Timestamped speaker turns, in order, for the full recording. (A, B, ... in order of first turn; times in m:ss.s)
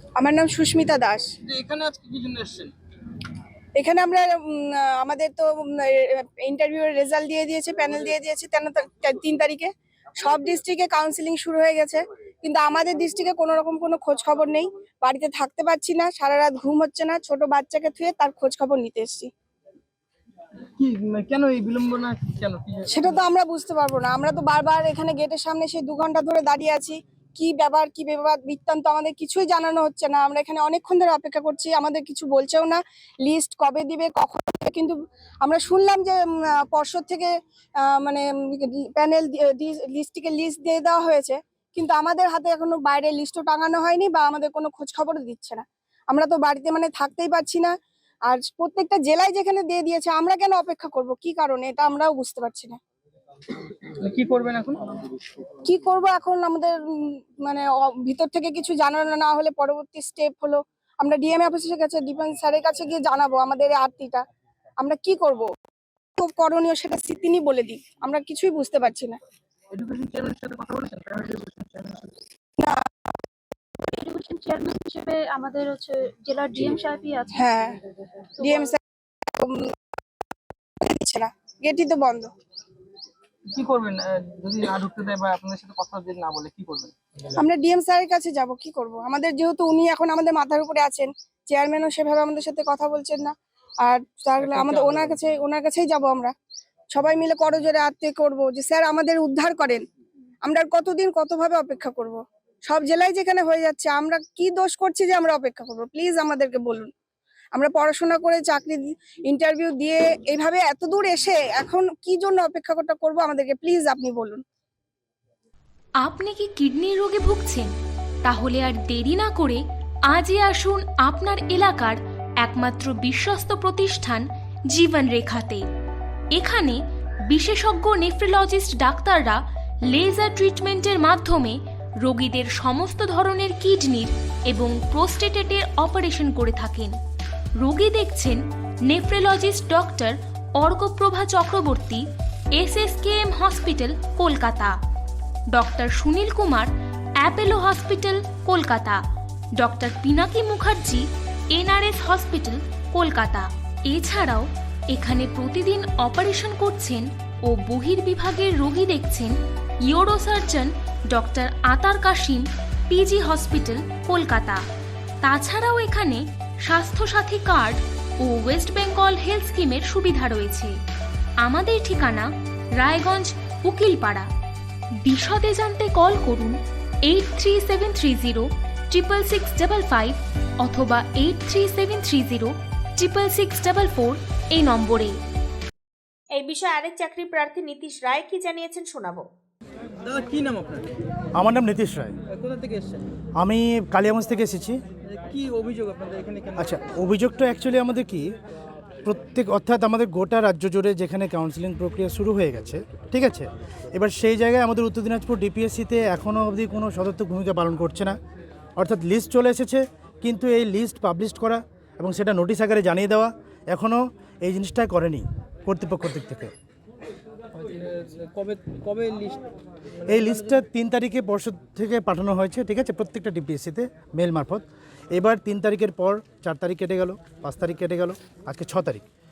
0:00.2-0:01.2 A
0:01.4-0:02.7 B
0:03.8-0:19.3 A
0:20.8-0:23.2 B
0:22.9-0:47.7 A
0:48.3-0:52.8 A
0:54.0-0:55.2 B
0:55.6-1:04.2 A
1:04.8-1:05.5 A
1:06.2-1:09.2 A
1:09.7-1:12.2 B
1:12.6-1:12.8 A
1:13.9-1:17.3 C
1:17.3-1:17.7 A
1:18.4-1:18.8 A
1:19.3-1:19.7 A
1:20.8-1:22.3 A
1:23.5-1:27.3 B
1:27.4-1:33.3 A
1:33.8-1:36.3 A
1:34.4-1:35.2 B
1:36.9-1:39.8 A
1:40.4-1:46.9 A
1:47.5-1:54.4 A
1:56.0-1:57.7 D
1:58.2-2:05.6 D
2:06.3-2:09.4 D
2:09.9-2:16.9 D
2:17.6-2:22.0 D
2:22.6-2:24.7 D
2:25.5-2:26.7 D
2:27.2-2:29.0 D
2:29.6-2:39.3 D
2:39.8-2:44.6 D
2:45.2-2:50.7 D
2:51.4-2:54.2 D
2:55.0-2:56.5 D
2:57.0-3:05.2 D
3:06.3-3:09.2 E
3:10.0-3:10.9 B
3:11.3-3:12.1 F
3:12.3-3:13.0 B
3:13.4-3:14.8 F
3:15.0-3:16.8 B
3:16.6-3:18.3 F
3:19.0-3:28.1 F
3:28.8-3:36.5 F
3:37.5-3:40.6 B
3:40.1-3:49.0 F